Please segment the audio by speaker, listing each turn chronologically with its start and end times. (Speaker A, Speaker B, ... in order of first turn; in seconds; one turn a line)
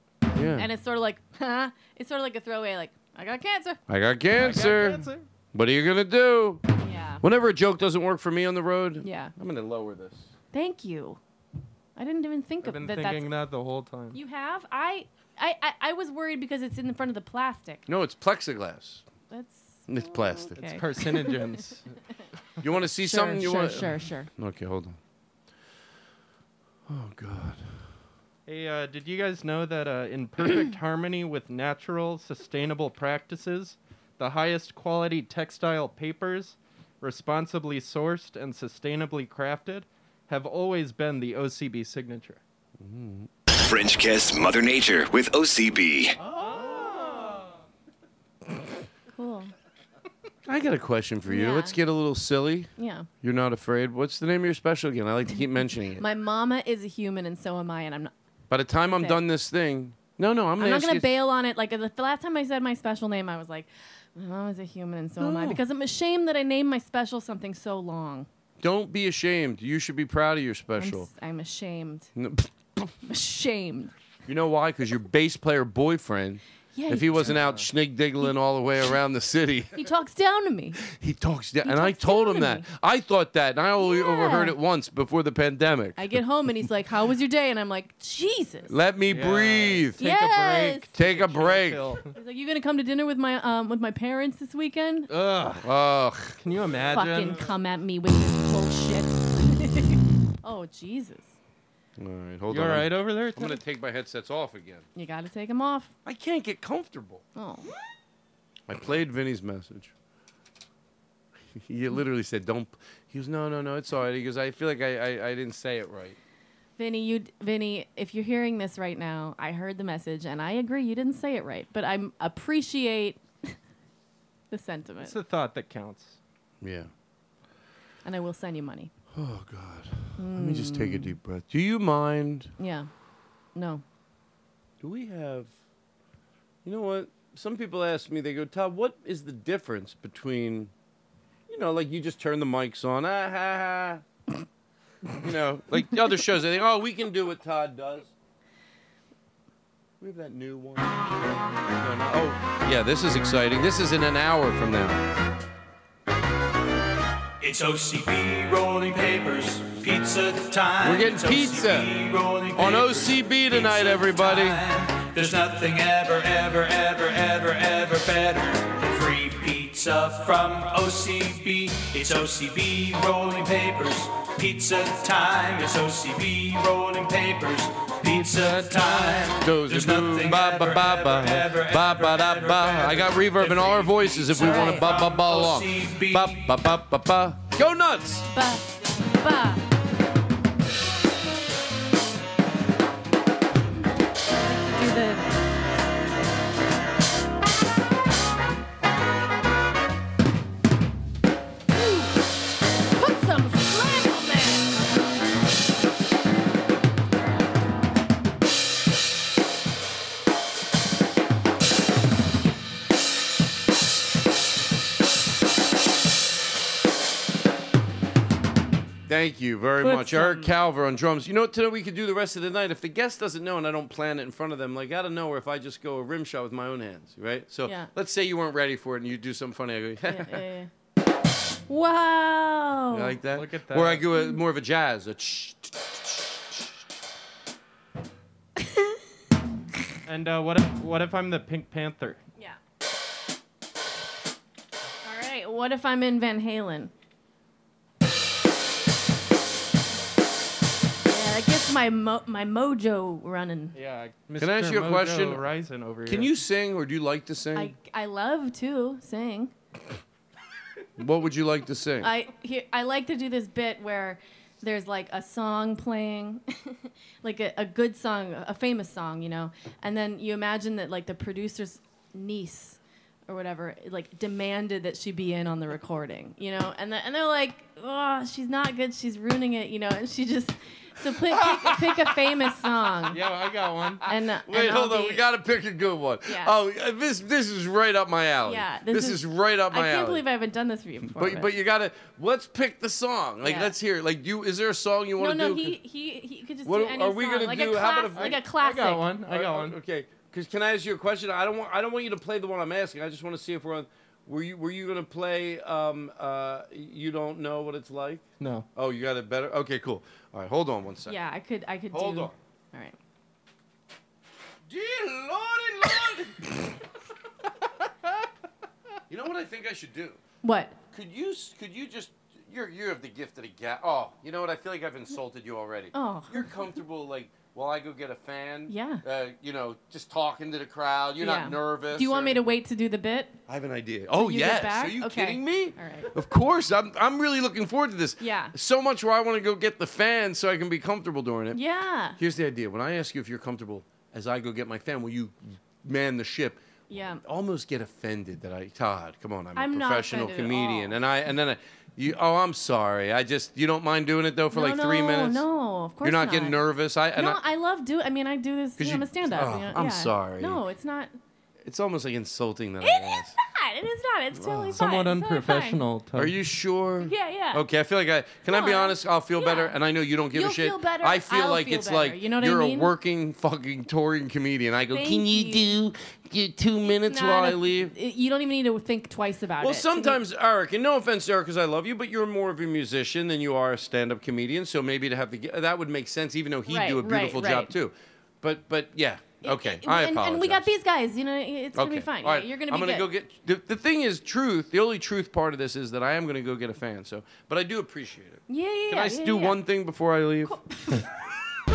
Speaker A: 0.3-0.7
Speaker B: 0.5-3.8
Speaker A: 3.9-6.6
Speaker C: 4.3-5.3
Speaker B: 6.8-7.2
Speaker A: 7.2-10.3
Speaker B: 9.0-9.3
Speaker B: 10.5-11.2
Speaker B: 12.0-13.3
Speaker C: 12.6-14.2
Speaker B: 14.1-17.9
Speaker A: 17.9-19.1
Speaker B: 19.3-21.4
Speaker A: 19.9-20.6
Speaker C: 20.6-21.9
Speaker A: 22.6-25.0
Speaker B: 23.0-24.3
Speaker A: 26.9-27.9
Speaker C: 28.5-42.4
Speaker A: 42.8-43.3
Speaker D: 43.5-46.2
Speaker B: 49.1-49.5
Speaker A: 50.5-52.7
Speaker B: 51.3-51.8
Speaker B: 52.8-53.1
Speaker A: 53.2-56.0
Speaker B: 56.0-58.1
Speaker A: 58.5-61.1
Speaker B: 58.8-59.2
Speaker B: 60.6-68.3
Speaker A: 65.2-65.6
Speaker A: 68.6-71.1
Speaker B: 70.8-72.1
Speaker A: 72.2-72.9
Speaker B: 73.0-73.9
Speaker A: 74.3-79.8
Speaker B: 76.7-77.4
Speaker C: 77.2-77.7
Speaker B: 79.8-80.8
Speaker A: 80.8-86.2
Speaker B: 81.6-82.7
Speaker B: 83.8-84.5
Speaker B: 86.0-88.8
Speaker A: 88.7-90.0
Speaker C: 89.1-92.1
Speaker B: 90.0-90.9
Speaker A: 91.0-91.9
Speaker B: 92.1-95.1
Speaker C: 95.1-95.7
Speaker A: 95.6-96.4
Speaker C: 96.4-97.5
Speaker B: 96.9-101.3
Speaker A: 102.0-104.9
Speaker C: 102.5-103.6
Speaker B: 105.0-105.9
Speaker A: 106.0-107.2
Speaker B: 107.3-107.7
Speaker A: 108.7-109.9
Speaker A: 111.6-116.2
Speaker B: 116.8-123.5
Speaker B: 124.5-125.2
Speaker C: 125.0-126.2
Speaker A: 126.6-126.9
Speaker B: 128.1-128.9
Speaker A: 129.1-132.5
Speaker B: 130.2-131.2
Speaker B: 132.6-132.9
Speaker B: 133.6-133.8
Speaker A: 134.8-135.5
Speaker A: 136.7-140.7
Speaker A: 141.5-144.0
Speaker A: 145.2-148.1
Speaker A: 150.0-151.1
Speaker A: 151.8-155.1
Speaker E: 157.4-186.6
Speaker A: 160.8-161.9
Speaker A: 162.6-164.6
Speaker A: 179.3-188.3
Speaker B: 184.4-184.9
Speaker B: 188.3-189.6
Speaker B: 194.4-195.3
Speaker B: 201.7-202.1
Speaker B: 203.0-204.7
Speaker A: 219.1-230.4
Speaker B: 219.8-220.5
Speaker B: 227.7-227.9
Speaker B: 230.1-230.7
Speaker B: 231.7-233.2
Speaker A: 232.9-236.6
Speaker C: 233.3-234.1
Speaker C: 240.1-242.2
Speaker B: 245.0-246.9
Speaker B: 251.1-253.8
Speaker C: 253.7-256.4
Speaker A: 254.4-255.5
Speaker A: 256.1-257.7
Speaker B: 257.6-259.5
Speaker A: 261.0-262.1
Speaker B: 262.0-283.2
Speaker A: 281.3-282.1
Speaker C: 283.1-284.1
Speaker B: 284.1-285.2
Speaker A: 284.5-290.2
Speaker B: 286.3-286.5
Speaker B: 288.4-291.5
Speaker A: 291.1-295.8
Speaker B: 293.4-293.7
Speaker B: 295.2-299.1
Speaker A: 296.6-298.5
Speaker C: 298.1-299.8
Speaker A: 299.3-311.2
Speaker C: 308.4-308.7
Speaker B: 311.1-313.0
Speaker A: 311.9-312.4
Speaker A: 314.7-316.5
Speaker A: 319.1-320.2
Speaker B: 320.4-320.8
Speaker A: 320.9-332.5
Speaker B: 325.9-326.5
Speaker B: 328.7-329.0
Speaker B: 331.2-333.4
Speaker A: 333.5-341.6
Speaker B: 334.2-336.1
Speaker B: 338.2-338.5
Speaker B: 341.5-342.2
Speaker A: 342.2-346.6
Speaker B: 346.9-347.2
Speaker A: 347.2-355.4
Speaker B: 349.6-351.0
Speaker B: 354.5-356.6
Speaker A: 356.0-357.4
Speaker B: 357.1-361.1
Speaker A: 358.8-360.6
Speaker A: 361.6-363.4
Speaker B: 362.8-365.8
Speaker A: 364.4-364.8
Speaker C: 364.7-366.4
Speaker A: 366.2-377.9
Speaker B: 367.0-367.6
Speaker B: 368.5-369.8
Speaker B: 370.3-372.9
Speaker B: 374.9-375.7
Speaker B: 376.9-380.2
Speaker A: 379.6-390.7
Speaker B: 386.7-387.7
Speaker B: 389.4-393.1
Speaker A: 391.8-400.6
Speaker B: 398.5-399.6
Speaker B: 400.5-401.0